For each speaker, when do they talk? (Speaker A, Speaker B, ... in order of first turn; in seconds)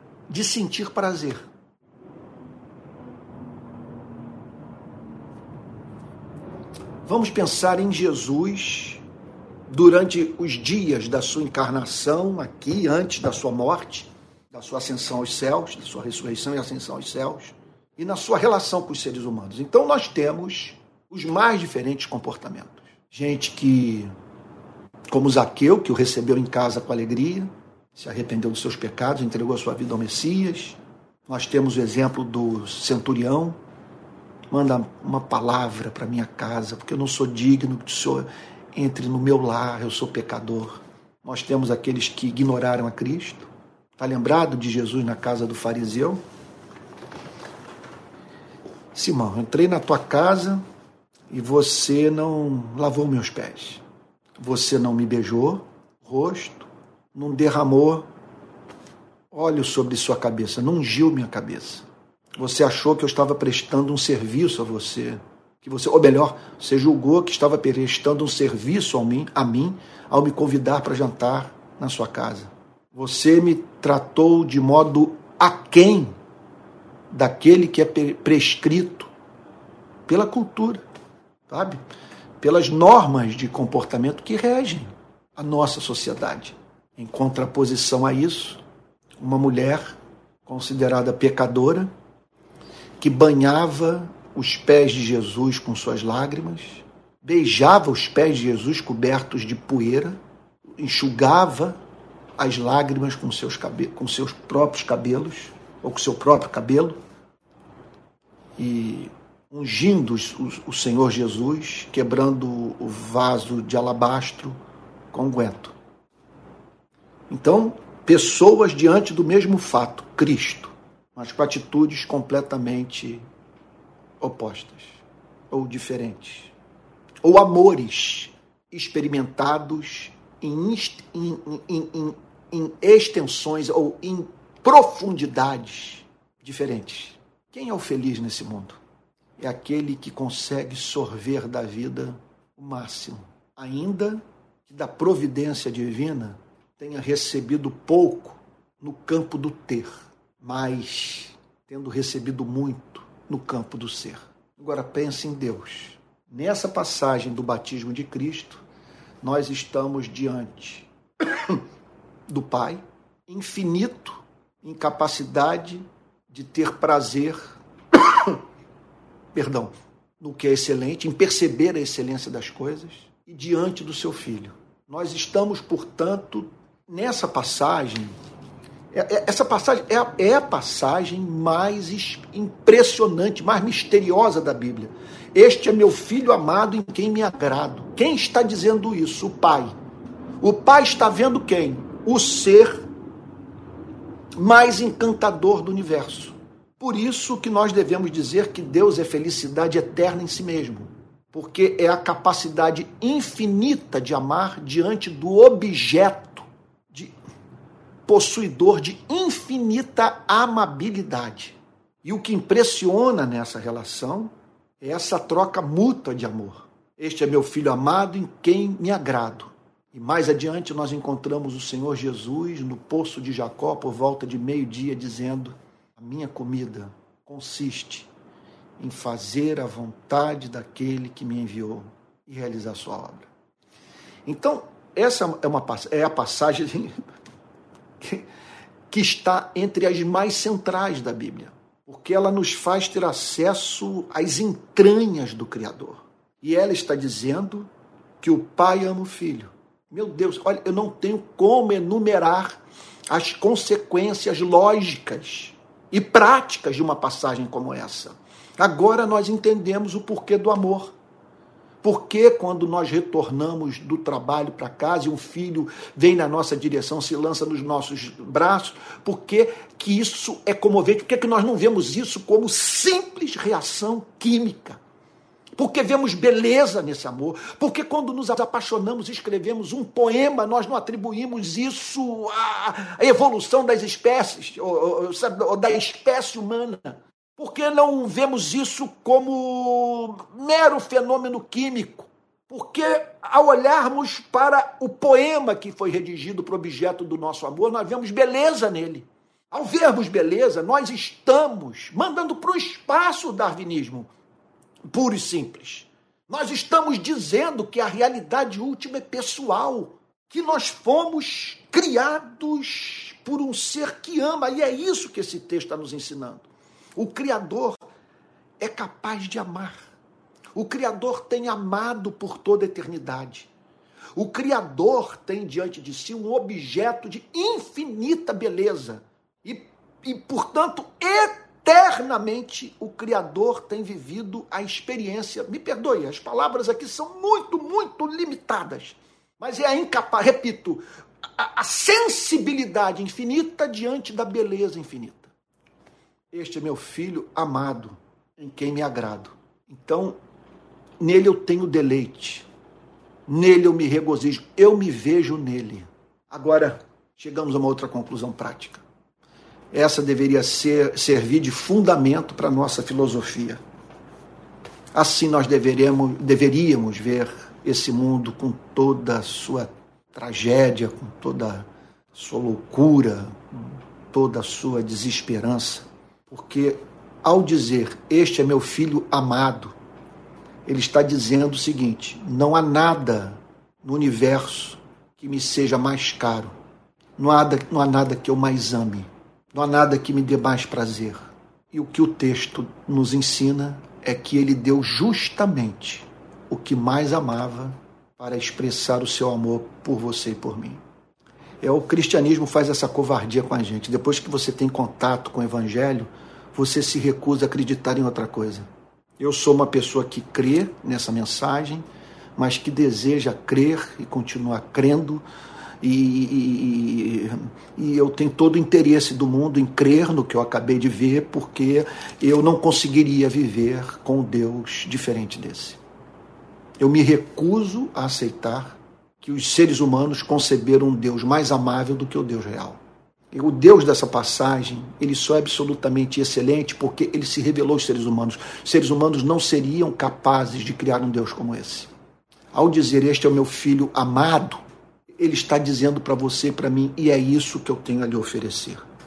Speaker A: 0.3-1.4, 7.0-9.0, 9.7-24.1, 25.1-33.6, 34.5-46.2, 48.9-50.6, 51.3-53.8, 54.4-58.1, 59.3-61.9, 62.4-76.2, 77.1-79.1, 80.1-80.8, 81.5-81.8, 82.4-88.6, 89.2-91.9, 93.0-100.2, 100.8-101.8, 102.4-107.0, 108.6-114.5, 115.1-115.8, 117.3-123.2, 124.2-126.5, 127.2-138.8, 139.4-158.6, 159.2-161.6, 162.3-168.4, 169.3-178.1, 178.9-189.7, 190.4-192.9, 194.4-207.1, 208.1-228.1, 228.8-233.3, 234.3-237.0, 238.0-238.3, 238.9-247.7, 248.2-260.9, 261.8-274.8, 275.6-304.1, 304.9-317.8, 318.6-319.9, 320.6-323.5, 324.1-340.8, 341.4-345.3, 346.3-350.2, 351.0-352.5, 353.3-358.9, 359.7-363.6, 364.9-379.8, 380.7-386.6, 387.2-400.8, 401.6-408.7, 409.2-411.8, 412.4-415.2, 415.8-425.8, 426.8-432.8, 433.3-441.9, 442.5-444.6, 445.2-448.8